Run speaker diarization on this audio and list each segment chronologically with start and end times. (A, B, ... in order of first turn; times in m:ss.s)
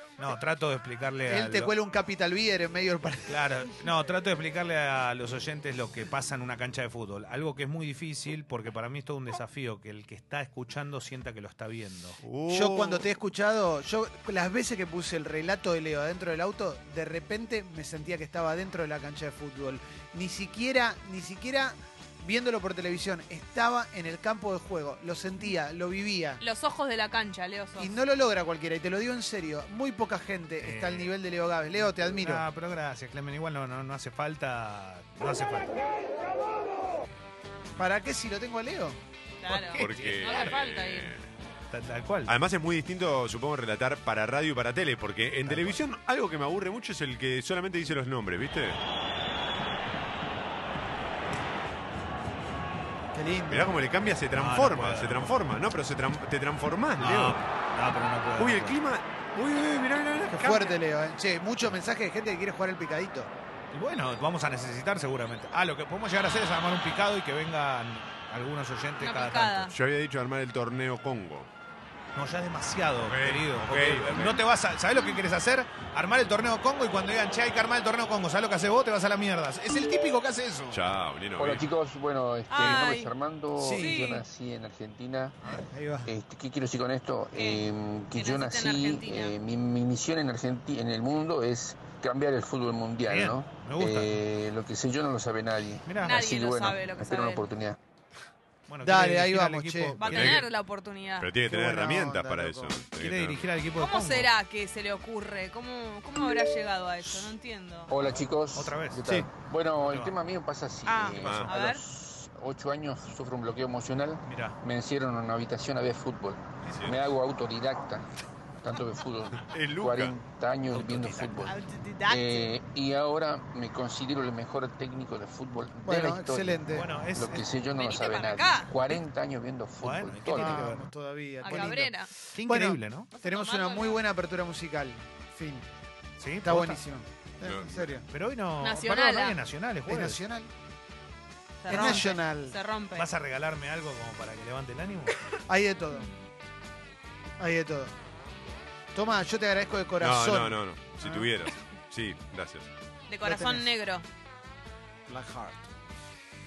0:00.2-0:01.7 A
0:01.3-0:03.6 B
0:03.3-0:12.2 A
0:12.2-0:13.1 C
0:12.5-0:26.4 B
0:26.4-0:28.0 D
0:27.8-0:32.4 B
0:30.6-0:31.1 A
0:32.0-0:35.8 A
0:37.8-0:39.0 B
0:39.4-0:41.1 D
0:39.5-0:40.6 A
0:39.8-0:41.2 C
0:41.7-0:42.3 A
0:42.3-0:48.8 C
0:45.5-0:45.8 A
0:53.1-0:53.7 B
0:53.5-0:57.4 C
0:54.4-0:55.3 A
0:57.0-0:58.8 A
0:58.4-1:00.7 C
1:00.3-1:03.3 B
1:03.7-1:09.7 A
1:09.0-1:09.8 D
1:09.7-1:11.5 C
1:12.1-1:20.8 A
1:13.0-1:14.5 C
1:20.7-1:21.7 C
1:21.4-1:25.4 E
1:22.5-1:23.1 D
1:23.6-1:24.0 B
1:23.7-1:24.2 D
1:25.7-1:26.1 B
1:26.0-1:37.8 E
1:27.3-1:29.3 D
1:33.1-1:34.1 A
1:35.9-1:36.2 A
1:36.0-1:37.5 D
1:38.7-1:40.4 A
1:38.8-1:40.0 B
1:40.0-1:41.3 D
1:40.0-1:40.5 C
1:41.2-1:43.5 C
1:41.5-1:42.8 B
1:43.0-1:44.3 A
1:43.8-1:47.9 D
1:47.9-1:58.1 E
1:47.9-1:49.2 A
1:49.8-1:50.1 A
1:50.9-1:51.8 D
1:51.2-1:51.5 C
1:54.2-1:54.6 A
1:56.7-1:57.0 C
1:58.6-2:10.7 E
1:59.4-2:00.2 C
2:00.7-2:01.6 A
2:01.4-2:02.5 D
2:05.8-2:07.0 B
2:06.7-2:07.5 A
2:07.6-2:08.8 D
2:09.8-2:10.9 A
2:10.3-2:15.7 B
2:11.4-2:12.1 D
2:12.4-2:13.1 A
2:13.1-2:14.0 D
2:16.2-2:16.8 A
2:16.4-2:18.0 B
2:17.4-2:18.0 C
2:18.1-2:20.2 A
2:18.6-2:19.4 D
2:19.8-2:20.5 B
2:21.6-2:23.1 D
2:21.7-2:22.6 B
2:21.7-2:22.0 A
2:22.9-2:25.3 A
2:25.5-2:26.1 B
2:27.4-2:28.0 B
2:28.9-2:31.3 B
2:30.0-2:32.7 C
2:33.1-2:34.0 D
2:33.2-2:33.7 B
2:35.1-2:35.7 B